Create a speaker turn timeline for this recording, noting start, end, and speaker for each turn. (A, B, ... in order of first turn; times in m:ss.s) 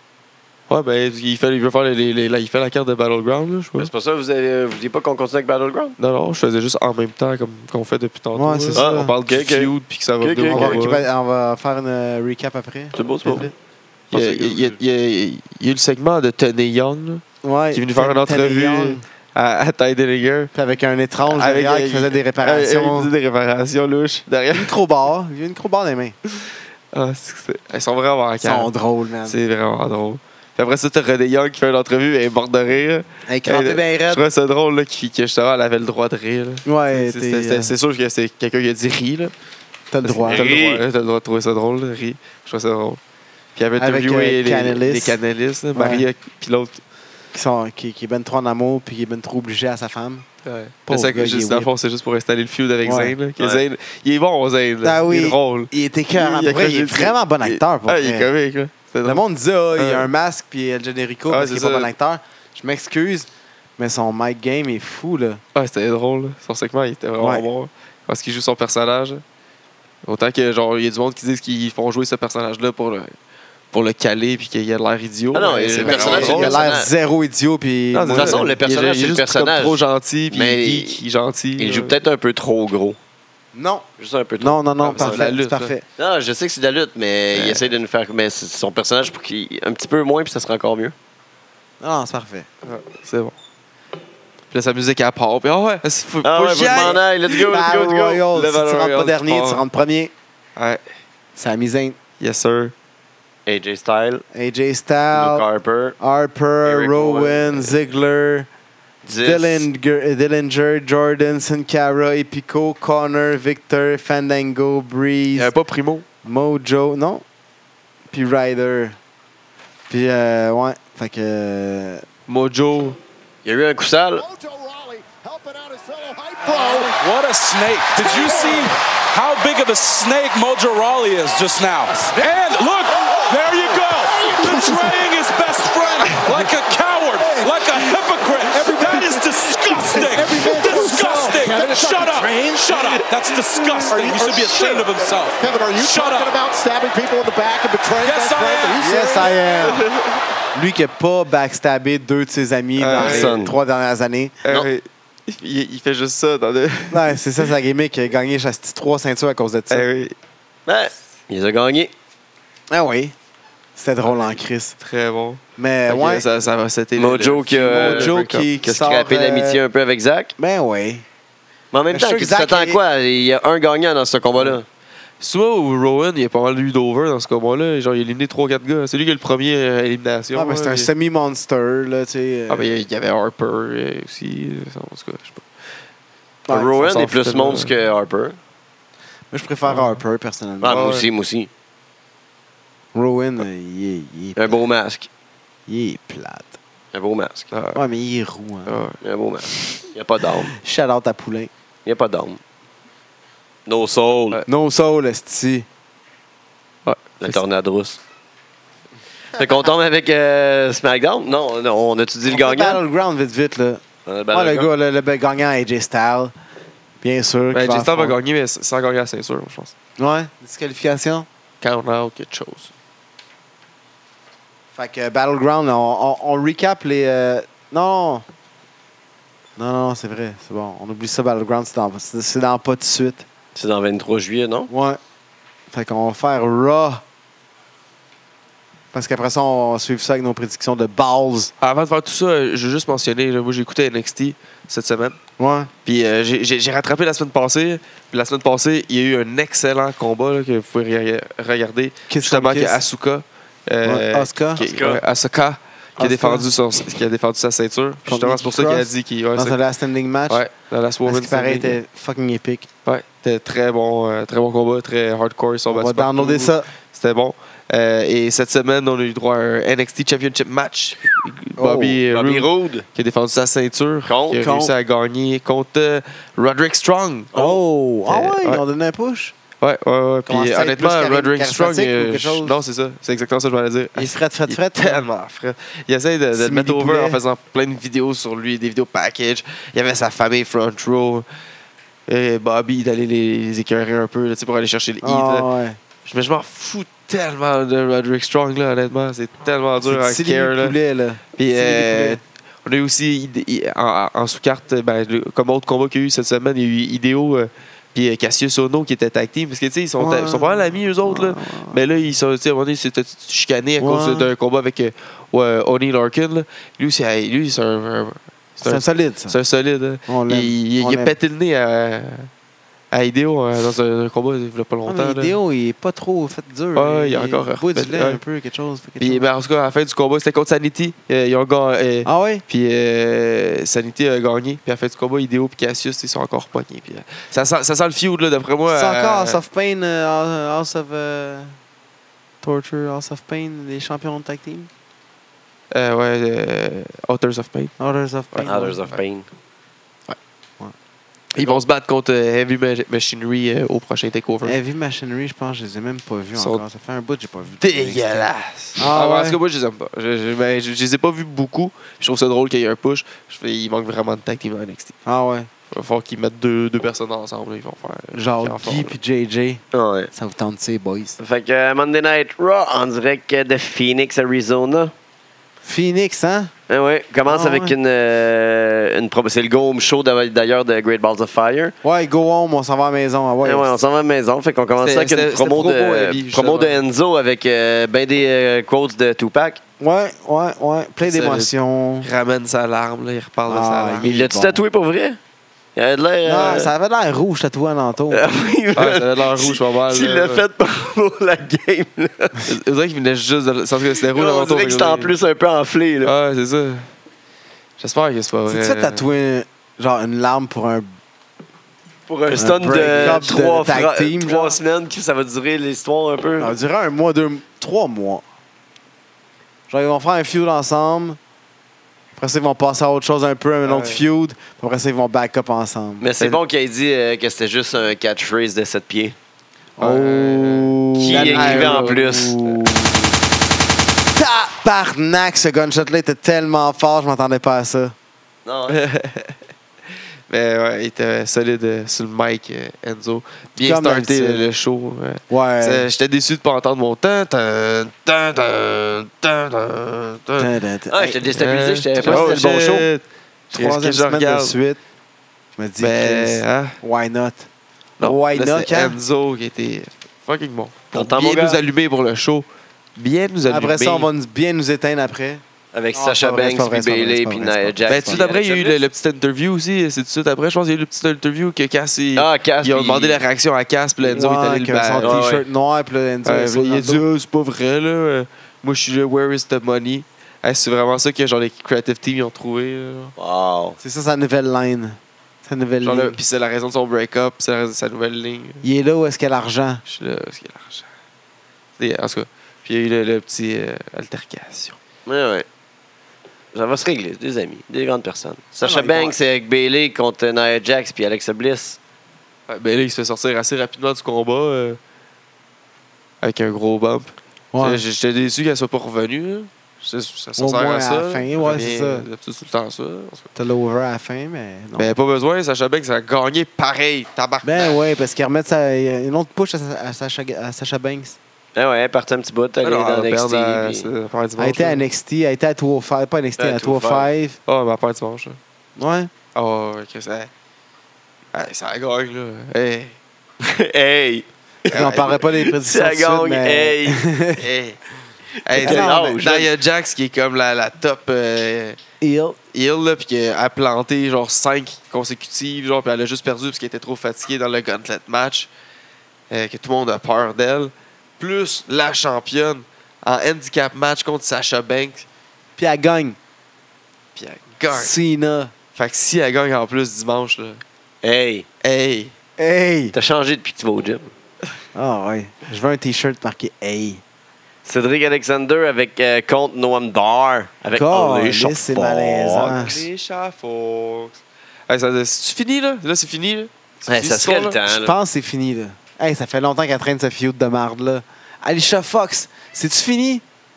0:00.7-0:03.9 A
0:03.8-0:06.0 B
0:06.0-0:11.0 A
0:08.3-0:09.1 C
0:08.7-0:10.8 B
0:10.5-0:13.5 C
0:12.9-0:13.5 B
0:14.1-0:14.8 B
0:14.1-0:20.5 A
0:17.4-0:19.0 C
0:20.5-0:23.1 C
0:21.2-0:24.7 A
0:24.5-0:26.1 C
0:26.3-0:28.7 A
0:28.4-0:29.4 C
0:29.2-0:39.3 A
0:33.2-0:34.2 C
0:36.6-0:37.7 C
0:39.9-0:40.5 C
0:40.0-0:43.0 A
0:40.2-0:40.8 B
0:43.6-0:46.8 A
0:43.8-0:45.2 C
0:45.7-0:46.1 C
0:47.3-0:50.2 C
0:50.4-0:59.2 A
0:50.9-0:51.7 C
0:52.8-0:53.1 C
0:54.8-0:58.3 C
0:59.0-1:05.4 C
0:59.8-1:00.1 A
1:01.3-1:01.9 A
1:05.5-1:09.2 A
1:07.2-1:07.4 C
1:10.0-1:13.1 A
1:13.7-1:16.6 A
1:15.3-1:16.9 B
1:15.8-1:18.6 C
1:17.9-1:22.0 A
1:18.1-1:19.8 B
1:20.3-1:21.0 B
1:21.6-1:23.0 B
1:23.5-1:23.9 C
1:24.0-1:25.2 B
1:24.4-1:25.8 C
1:24.8-1:25.7 A
1:26.0-1:30.9 B
1:27.3-1:27.6 A
1:31.8-1:32.5 C
1:32.6-1:33.3 A
1:34.5-1:37.4 A
1:36.2-1:38.3 B
1:37.4-1:40.1 C
1:38.3-1:39.6 A
1:40.6-1:40.8 A
1:41.4-1:42.0 C
1:42.2-1:42.7 A
1:43.4-1:44.2 B
1:44.3-1:45.4 C
1:45.1-1:46.0 B
1:46.0-1:48.5 C
1:46.6-1:47.7 B
1:49.0-1:49.6 B
1:49.2-1:55.5 C
1:55.3-1:56.0 A
1:56.2-1:57.2 C
1:58.1-1:59.0 C
1:59.9-2:02.0 C
2:02.3-2:03.0 A
2:03.4-2:04.2 B
2:04.2-2:07.0 D
2:06.5-2:26.4 E
2:07.9-2:08.8 D
2:11.9-2:16.5 D
2:17.1-2:29.8 D
2:28.0-2:29.3 E
2:28.8-2:29.8 C
2:29.6-2:30.1 A
2:30.5-2:34.4 C
2:32.8-2:33.4 A
2:32.9-2:33.5 B
2:34.4-2:37.2 A
2:36.9-2:39.9 C
2:39.7-2:40.1 A
2:40.7-2:41.9 B
2:42.7-2:43.1 C
2:43.7-2:44.8 C
2:44.8-2:48.5 A
2:45.6-2:46.2 C
2:47.0-2:50.3 B
2:47.6-2:49.6 C
2:50.4-2:51.0 C
2:51.7-2:54.6 B
2:51.9-2:52.8 C
2:55.2-3:00.9 A
3:00.3-3:02.7 C
3:02.5-3:05.4 A
3:06.5-3:07.0 C
3:06.5-3:08.4 B
3:06.8-3:07.7 A
3:09.3-3:11.0 C
3:09.7-3:10.0 A
3:10.6-3:11.5 B
3:10.7-3:11.1 A
3:12.9-3:14.6 C
3:14.4-3:15.1 B
3:15.7-3:16.6 C
3:16.9-3:17.5 B
3:17.5-3:17.8 A
3:17.7-3:18.7 C
3:18.7-3:19.0 A
3:19.0-3:20.5 B
3:20.4-3:21.5 C
3:21.8-3:22.4 B
3:23.6-3:24.4 B
3:24.4-3:25.7 C
3:26.8-3:27.4 A
3:27.2-3:28.0 B
3:29.4-3:32.8 B
3:32.3-3:36.3 C
3:34.0-3:34.7 B
3:37.0-3:38.2 C
3:37.5-3:39.7 A
3:40.0-3:41.3 C
3:41.6-3:42.7 A
3:44.7-3:48.2 C
3:49.6-3:53.2 C
3:53.5-3:54.7 B
3:54.7-3:55.0 C
3:55.7-3:57.0 C
3:58.9-4:01.5 C
4:01.6-4:05.2 A
4:05.4-4:05.7 C
4:05.8-4:19.6 A
4:12.1-4:12.8 C
4:13.8-4:14.6 C
4:14.6-4:15.0 B
4:16.0-4:16.5 C
4:18.0-4:20.4 C
4:20.3-4:21.8 A
4:21.0-4:22.7 C
4:22.8-4:37.3 A
4:25.7-4:26.7 C
4:31.6-4:32.0 C
4:32.1-4:32.8 B
4:34.0-4:34.5 B
4:34.4-4:34.7 C
4:37.3-4:37.6 B
4:37.3-4:39.3 C
4:38.1-4:38.6 A
4:39.6-4:51.2 A
4:40.3-4:42.6 C
4:43.9-4:45.0 C
4:46.3-4:47.2 C
4:52.1-4:55.5 A
4:55.0-4:55.8 C
4:56.0-5:00.8 A
4:59.8-5:02.2 C
5:01.4-5:22.3 A
5:10.0-5:11.8 C
5:13.8-5:14.3 C
5:18.6-5:19.4 C
5:20.0-5:21.2 C
5:22.9-5:25.3 A
5:24.8-5:29.2 C
5:26.7-5:28.2 A
5:29.0-5:39.4 A
5:32.0-5:32.4 C
5:38.7-5:41.6 C
5:42.4-5:44.7 C
5:45.7-5:47.7 A
5:47.8-5:48.8 C
5:48.4-5:49.3 B
5:51.3-5:54.6 A
5:54.4-5:58.2 C
5:56.4-5:56.6 A
5:57.6-6:04.9 A
5:58.8-5:59.4 C
6:05.0-6:05.5 C
6:05.7-6:08.9 A
6:08.1-6:11.2 C
6:09.7-6:10.1 B
6:11.2-6:14.9 B
6:15.6-6:16.5 C
6:16.7-6:21.7 B
6:17.2-6:17.7 C
6:21.8-6:23.7 C
6:23.4-6:29.6 B
6:24.8-6:26.8 A
6:29.8-6:32.1 C
6:31.0-6:31.5 A
6:32.0-6:34.2 A
6:33.5-6:34.6 C
6:34.0-6:35.2 B
6:35.8-6:36.7 B
6:36.2-6:38.2 C
6:38.1-6:42.5 B
6:38.7-6:40.4 A
6:42.4-6:45.1 A
6:43.9-6:46.1 B
6:46.0-6:46.9 A
6:47.8-6:49.0 A
6:48.5-6:50.9 C
6:52.1-6:56.5 B
6:52.3-6:54.6 C
6:56.4-6:58.2 C
6:59.7-7:01.2 C
7:02.2-7:06.0 C
7:03.6-7:04.0 A
7:06.0-7:09.2 B
7:09.8-7:13.2 C
7:09.8-7:12.3 A
7:11.0-7:12.5 B
7:14.1-7:17.9 C
7:18.4-7:18.8 B
7:18.7-7:19.4 A
7:20.3-7:30.5 A
7:23.6-7:24.5 C
7:25.3-7:25.9 C
7:30.4-7:31.2 C
7:30.9-7:32.9 B
7:31.3-7:34.6 A
7:32.0-7:32.7 C
7:33.5-7:34.8 C
7:35.6-7:37.5 C
7:35.8-7:36.8 A
7:38.0-7:39.0 C
7:38.0-7:44.1 A
7:40.9-7:41.6 B
7:43.4-7:48.2 C
7:45.7-7:48.8 B
7:47.9-7:55.2 A
7:52.2-7:53.2 B
7:54.0-7:57.0 C
7:55.0-7:55.4 B
7:56.2-8:03.1 A
8:03.2-8:03.8 B
8:03.8-8:06.2 C
8:05.8-8:08.6 A
8:08.6-8:09.8 C
8:09.8-8:10.9 A
8:11.8-8:14.8 A
8:15.0-8:15.4 B
8:16.5-8:21.8 B
8:18.6-8:19.2 C
8:22.5-8:24.8 A
8:26.2-8:33.3 A
8:27.5-8:27.8 C
8:30.4-8:32.1 C
8:33.3-8:34.9 C
8:34.8-8:37.7 A
8:37.4-8:41.2 C
8:41.5-8:43.9 B
8:42.6-8:44.8 A
8:44.4-8:47.4 C
8:46.4-8:47.1 B
8:47.4-8:48.4 A
8:48.8-8:49.1 C
8:49.3-8:50.3 A
8:51.3-8:53.0 A
8:53.4-8:57.0 B
8:54.7-8:57.4 C
8:54.7-8:55.2 A
8:57.4-8:57.8 A
8:58.4-9:01.8 A
8:58.5-8:59.5 B
8:58.6-8:59.2 C
9:02.0-9:02.4 C
9:02.5-9:08.5 A
9:09.3-9:15.0 A
9:15.6-9:16.2 C
9:17.2-9:17.9 A
9:17.7-9:18.5 C
9:18.8-9:20.6 A
9:21.0-9:21.4 B
9:21.6-9:22.1 A
9:22.4-9:22.9 C
9:22.9-9:24.1 B
9:24.7-9:27.0 C
9:27.6-9:32.7 B
9:30.7-9:32.8 C
9:32.3-9:34.2 A
9:34.7-9:37.6 A
9:36.9-9:37.9 B
9:37.6-9:43.2 C